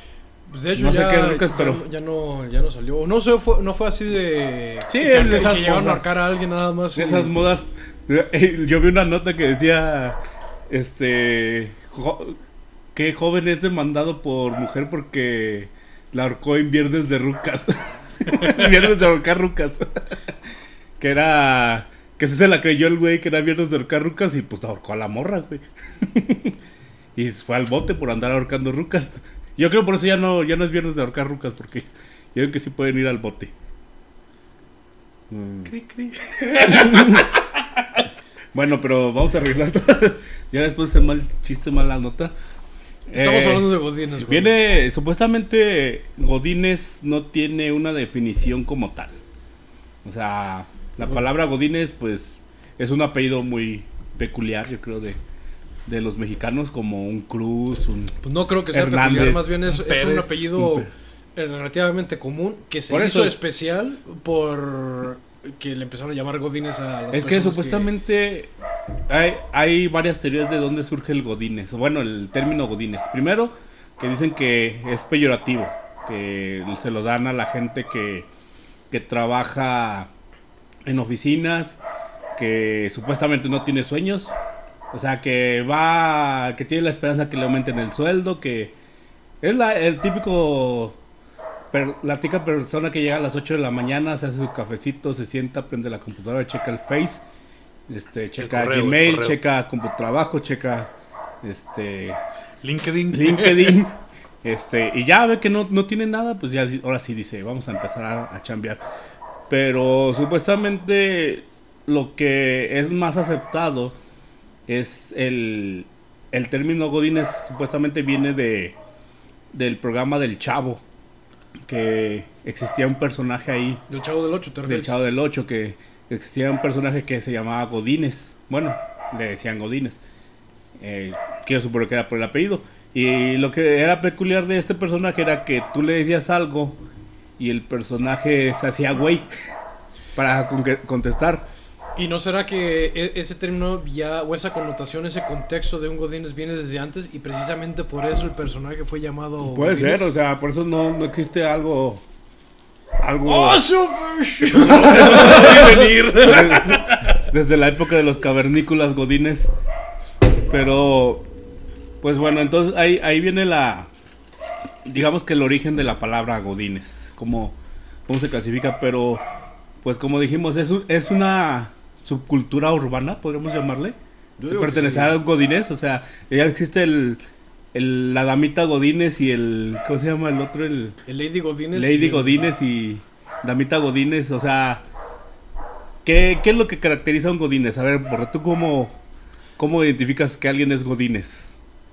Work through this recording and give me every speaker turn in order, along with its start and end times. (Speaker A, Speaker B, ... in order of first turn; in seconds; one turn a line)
Speaker A: 0.5-7.3
Speaker B: 0.7-1.8
Speaker B: 4.9-6.1
Speaker B: 6.9-12.4
Speaker B: 12.9-20.1
Speaker B: 21.0-26.6
Speaker B: 27.1-33.5
Speaker B: 35.3-35.7
Speaker C: 35.6-37.3
Speaker B: 36.6-37.3
Speaker B: 38.5-42.3
Speaker B: 43.1-49.1
Speaker A: 43.1-44.6
Speaker B: 50.0-55.2
Speaker B: 55.9-58.2
Speaker A: 58.2-67.9
Speaker B: 58.7-59.7
Speaker C: 59.7-60.5
Speaker B: 60.5-60.9
Speaker B: 62.9-63.4
Speaker B: 67.1-68.5
Speaker B: 69.1-78.3
Speaker B: 78.9-80.1
Speaker B: 80.8-81.8
Speaker B: 82.3-84.3
Speaker B: 84.9-88.7
Speaker B: 89.4-91.0
Speaker B: 91.7-97.2
Speaker B: 97.9-100.9
Speaker C: 98.4-99.4
Speaker B: 101.4-102.2
Speaker C: 102.6-103.8
Speaker B: 103.1-108.8
Speaker B: 109.5-114.0
Speaker B: 114.7-118.8
Speaker B: 119.5-120.8
Speaker B: 121.7-123.8
Speaker A: 123.9-125.0
Speaker B: 124.7-130.0
Speaker B: 130.8-136.8
Speaker B: 137.4-139.3
Speaker B: 140.1-141.4
Speaker A: 141.9-150.1
Speaker B: 149.4-152.0
Speaker B: 153.0-153.6
Speaker A: 153.2-156.3
Speaker B: 154.5-159.5
Speaker C: 154.7-157.2
Speaker B: 160.5-161.3
Speaker B: 162.0-163.9
Speaker B: 164.8-167.6
Speaker B: 168.1-169.2
Speaker B: 169.8-177.2
Speaker A: 174.4-175.2
Speaker B: 177.7-181.0
Speaker A: 181.1-182.5
Speaker B: 181.7-184.8
Speaker B: 186.0-188.9
Speaker B: 189.6-191.5